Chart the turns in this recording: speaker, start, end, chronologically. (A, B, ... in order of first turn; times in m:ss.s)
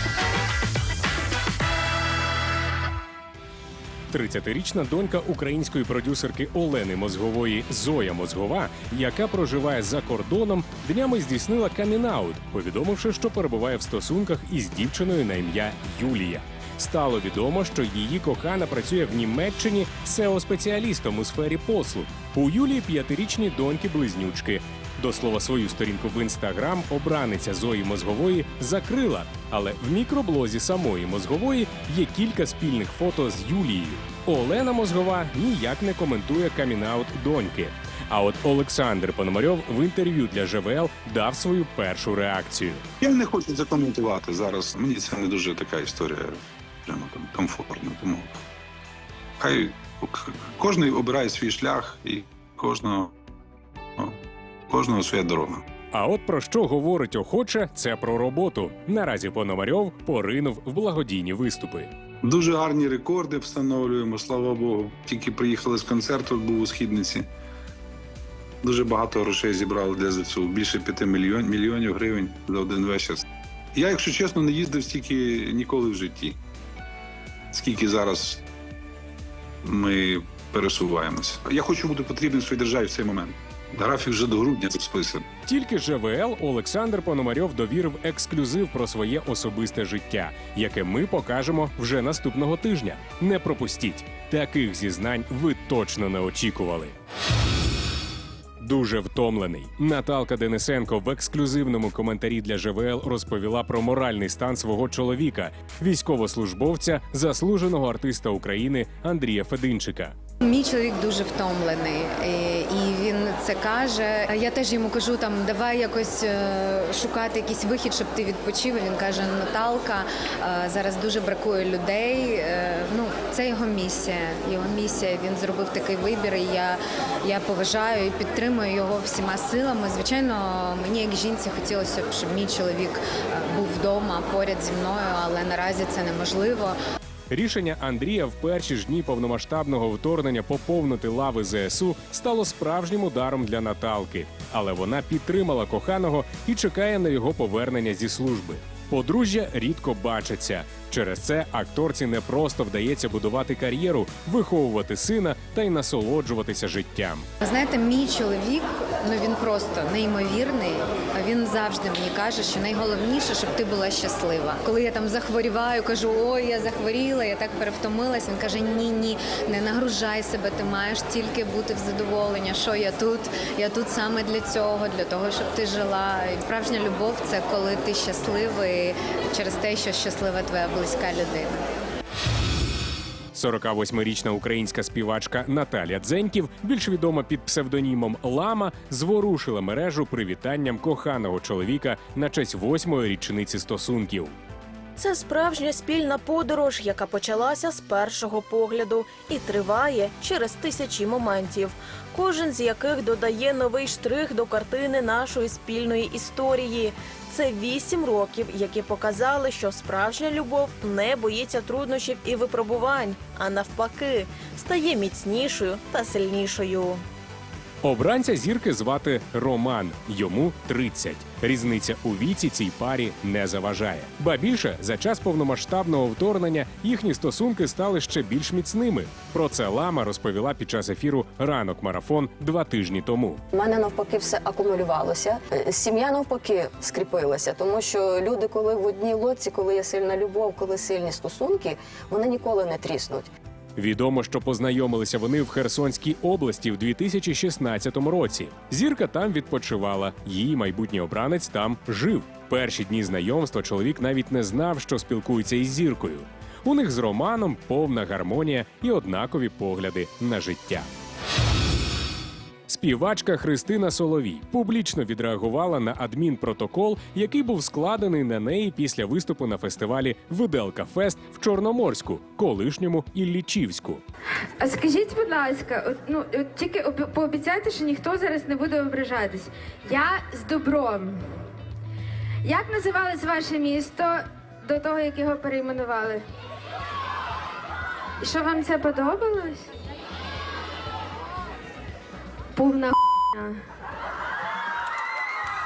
0:04.1-0:42.8 A
0:43.0-0:48.4 B
0:49.4-0:53.1 B
0:54.0-0:55.6 B
0:55.9-1:01.9 A
1:02.2-1:07.2 B
1:08.6-1:13.2 B
1:13.7-1:16.4 B
1:17.5-1:18.4 B
1:19.6-1:25.2 B
1:25.5-1:36.9 A
1:38.6-1:50.1 A
1:50.4-2:16.8 C
2:17.3-2:37.3 A
2:37.4-3:01.6 C
3:03.3-3:14.3 A
3:15.0-3:37.0 D
3:37.8-3:53.4 A
3:53.5-4:03.3 E
4:03.8-4:20.9 A
4:22.7-4:34.0 A
4:34.6-4:41.2 F
4:42.4-4:46.2 F
4:48.2-4:49.6 F
4:52.5-4:53.6 F